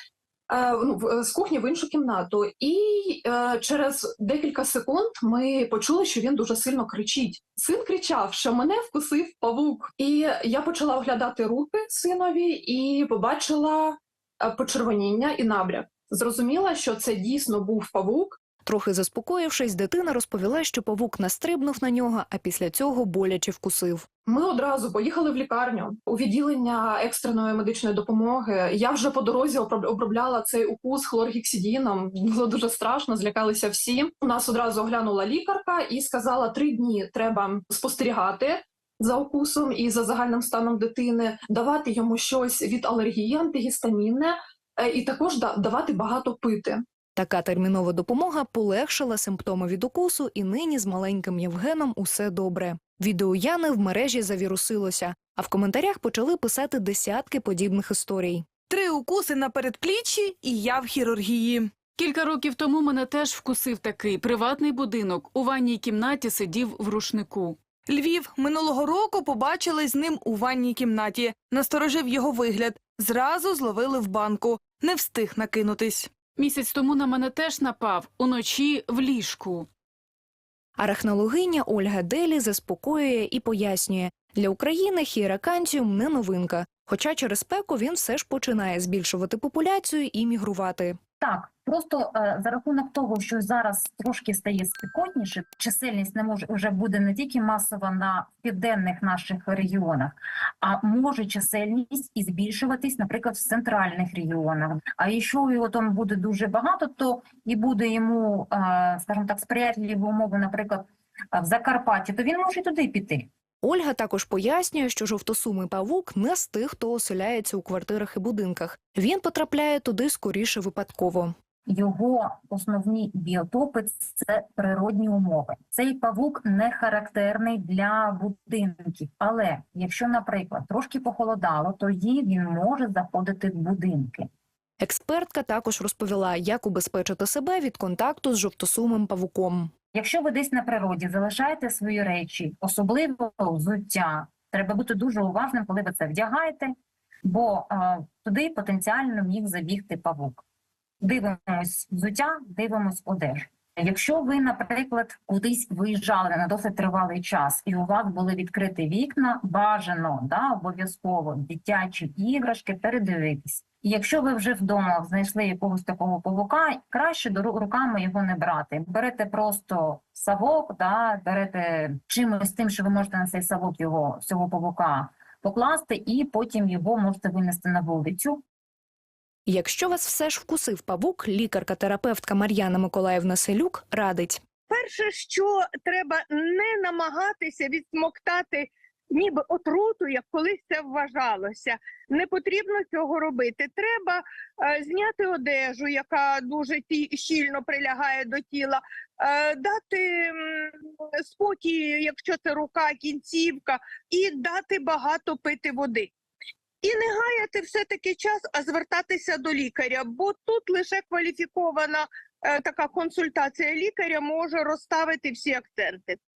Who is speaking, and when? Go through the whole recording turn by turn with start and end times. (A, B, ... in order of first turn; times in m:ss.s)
0:00.5-0:18.4 A
0:18.6-0:24.1 B
0:24.2-0:46.8 A
0:47.2-0:58.5 B
0:58.8-1:00.1 C
1:02.0-1:07.6 D
1:08.2-1:11.0 C
1:11.8-1:14.6 C
1:15.1-1:15.7 C
1:16.4-1:19.7 D
1:20.8-1:31.0 B
1:31.2-1:53.3 E
1:53.6-2:01.3 B
2:01.6-2:14.3 E
2:14.8-2:19.7 B
2:19.9-2:26.7 E
2:27.2-2:30.4 E
2:31.0-2:58.4 E
2:59.5-3:04.4 B
3:04.7-3:26.1 F
3:26.8-3:36.2 F